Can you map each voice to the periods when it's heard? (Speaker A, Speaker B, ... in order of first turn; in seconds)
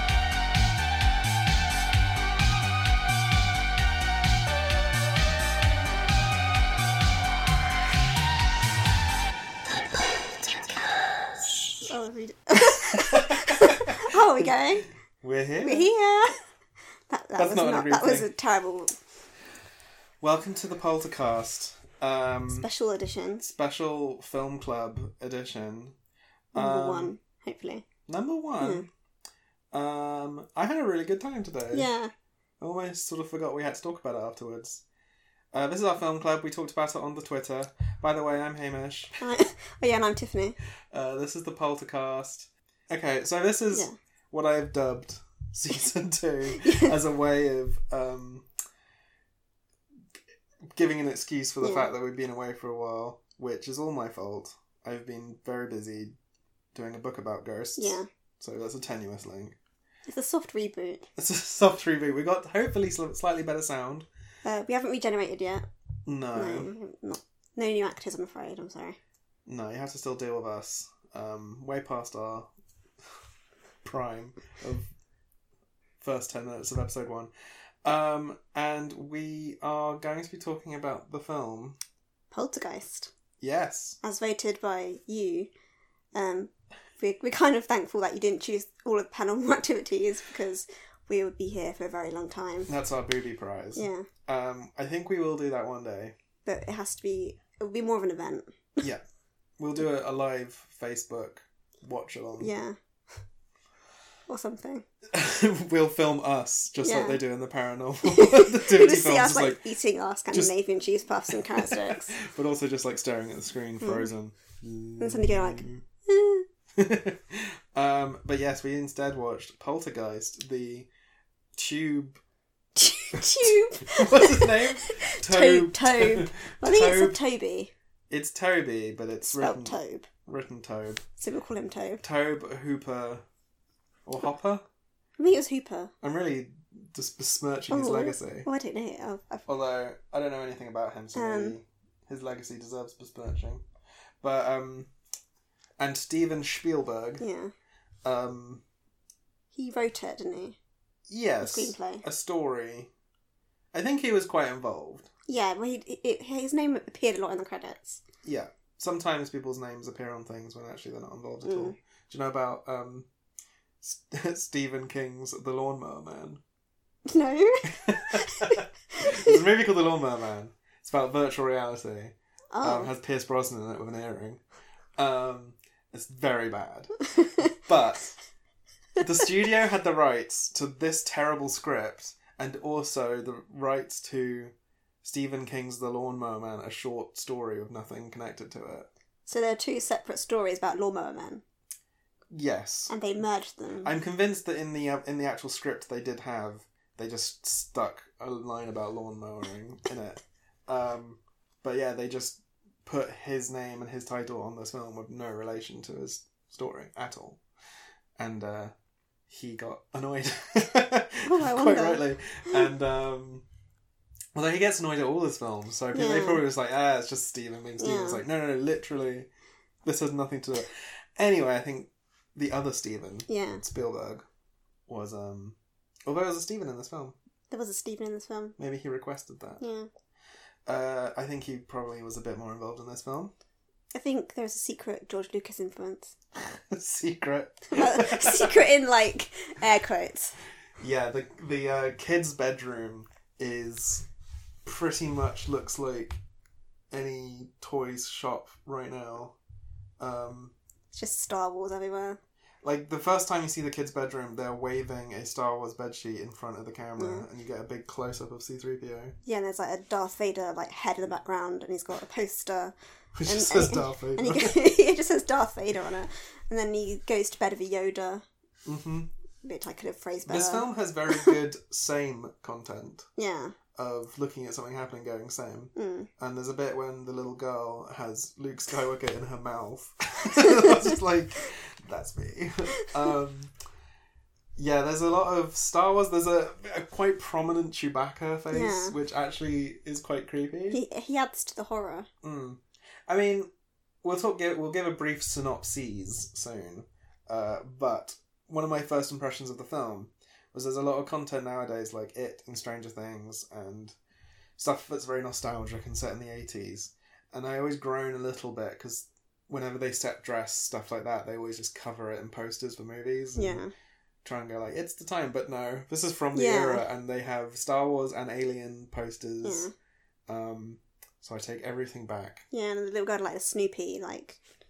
Speaker A: 11.8-14.9, 15.6-16.4, 17.1-18.9, 22.5-23.4, 26.5-27.8, 28.6-28.9, 31.7-32.1, 39.2-40.6, 46.5-46.9, 51.6-51.9, 57.8-58.1, 60.1-61.1, 64.4-65.7, 66.3-69.0, 82.3-83.1, 84.0-85.5, 86.1-92.7, 93.8-94.1, 96.5-98.5, 102.4-102.8, 104.3-104.8, 106.8-107.2, 108.0-112.1, 113.8-114.1, 115.0-116.5, 122.8-127.7, 129.2-130.1, 131.2-132.0, 135.2-135.9, 137.7-139.4, 141.1-141.6, 147.2-147.5, 149.5-150.6, 151.4-152.0, 155.3-158.0, 161.4-161.8, 167.1-169.3, 172.5-172.9, 177.2-177.5, 189.2-191.4, 192.9-193.9, 211.2-212.6, 215.9-216.4, 217.8-218.2, 223.3-223.6, 227.5-228.6, 229.6-229.9, 233.9-236.2, 237.7-240.3, 250.9-252.2, 257.0-257.2, 259.2-262.7, 263.2-268.2, 269.4-271.3, 273.2-273.6, 275.8-276.1, 280.4-280.7, 288.5-288.9, 290.7-292.1, 313.4-313.7, 316.3-316.8, 319.4-319.7, 322.5-324.4
Speaker B: 12.9-15.9, 17.4-18.3, 20.2-22.7, 23.4-25.9, 26.5-27.1, 28.1-28.9, 29.7-31.9, 32.6-34.8, 35.5-39.1, 40.9-48.5, 50.6-56.1, 56.7-59.5, 61.1-64.1, 66.0-66.7, 69.5-72.5, 73.8-74.9, 76.0-77.3, 77.8-81.8, 83.4-84.0, 92.7-96.2, 99.6-102.5, 105.1-109.6, 111.3-115.8, 116.7-120.9, 121.5-122.2, 123.1-127.2, 128.1-131.0, 132.0-133.2, 134.1-134.6, 136.0-138.5, 139.4-143.6, 144.2-144.9, 145.8-147.2, 148.0-148.6, 151.1-152.9, 153.7-155.1, 158.2-163.1, 163.8-166.4, 167.8-174.4, 175.0-178.2, 179.0-188.9, 192.3-192.9, 193.8-207.4, 208.2-208.7, 209.3-213.4, 214.3-219.3, 219.8-224.2, 224.9-227.2, 228.6-229.6, 230.7-233.3, 236.4-238.6, 240.8-244.1, 244.6-246.2, 246.9-249.3, 250.0-250.5, 252.6-259.1, 263.2-264.6, 268.6-269.1, 270.2-273.1, 273.7-283.5, 284.6-290.8, 292.2-293.5, 294.0-304.0, 304.6-313.6, 314.2-319.7, 320.3-322.4